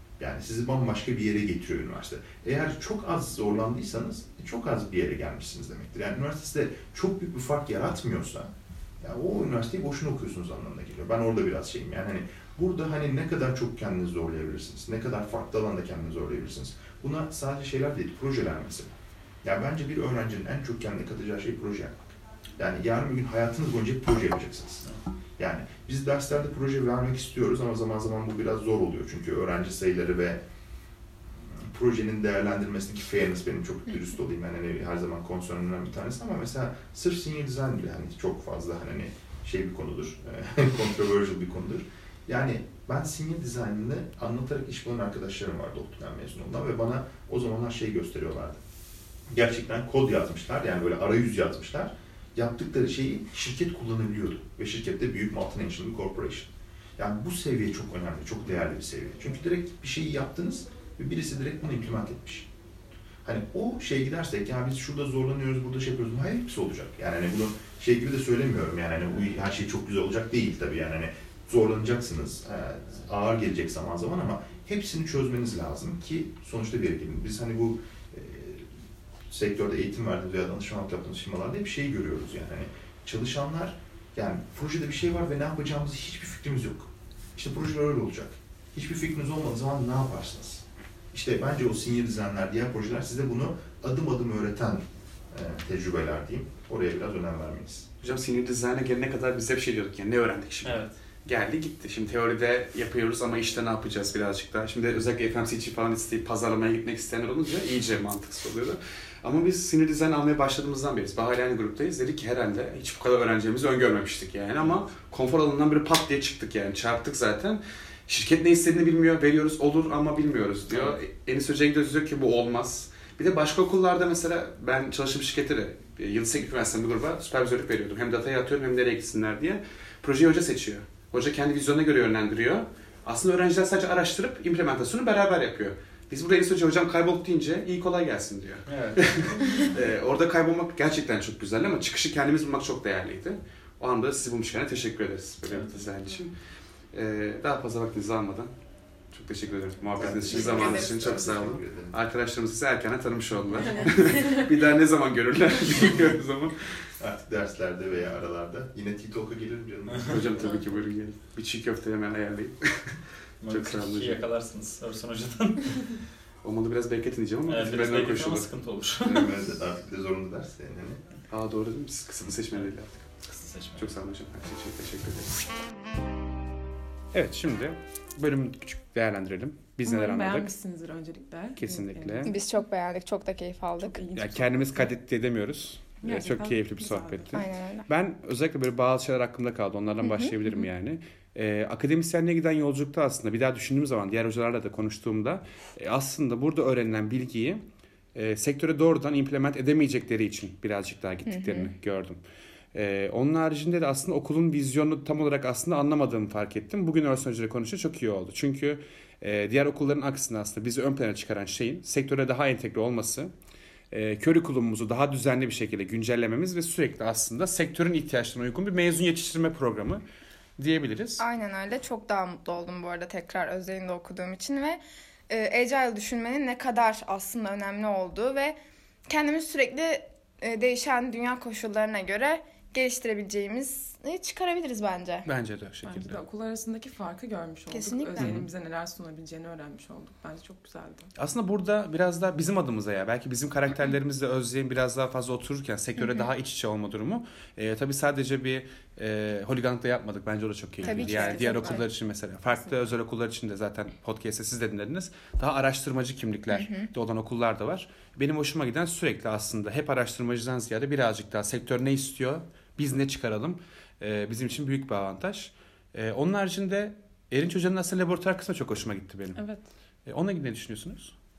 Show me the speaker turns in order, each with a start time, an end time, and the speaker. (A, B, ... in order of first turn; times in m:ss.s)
0:00.2-0:08.5 A
0:09.0-0:24.8 A
0:25.4-0:30.4 A
0:31.4-0:48.6 A
0:49.3-1:02.5 A
1:03.2-1:18.7 A
1:19.3-1:37.9 A
1:38.0-2:26.3 B
1:40.6-1:40.9 C
2:18.6-2:19.7 C
2:25.4-2:25.8 C
2:26.9-2:28.5 B
2:29.1-2:36.7 B
2:29.9-2:32.0 A
2:30.3-2:30.9 D
2:37.0-2:40.2 A
2:40.0-2:44.2 B
2:43.4-2:46.0 C
2:46.4-2:48.5 B
2:47.4-2:49.3 C
2:49.0-2:51.0 A
2:51.3-2:53.0 B
2:53.2-2:53.9 C
2:53.8-2:55.6 B
2:57.1-3:00.5 B
2:59.8-3:02.4 E
3:01.6-3:02.3 B
3:02.2-3:04.0 D
3:03.8-3:04.9 E
3:04.1-3:17.6 B
3:06.0-3:07.4 E
3:07.3-3:07.9 D
3:10.0-3:10.4 D
3:18.1-3:22.2 B
3:21.2-3:21.7 D
3:22.7-3:33.3 B
3:33.9-3:40.0 B
3:40.6-3:41.2 B
3:41.2-3:48.6 D
3:49.1-3:55.3 D
3:55.2-3:56.2 B
3:55.8-4:01.1 E
3:57.7-3:58.4 D
3:58.2-3:58.4 B
4:01.2-4:29.4 B
4:06.0-4:06.3 D
4:10.8-4:11.8 D
4:10.8-4:11.8 E
4:16.5-4:16.9 D
4:29.3-4:29.6 E
4:30.0-4:31.1 B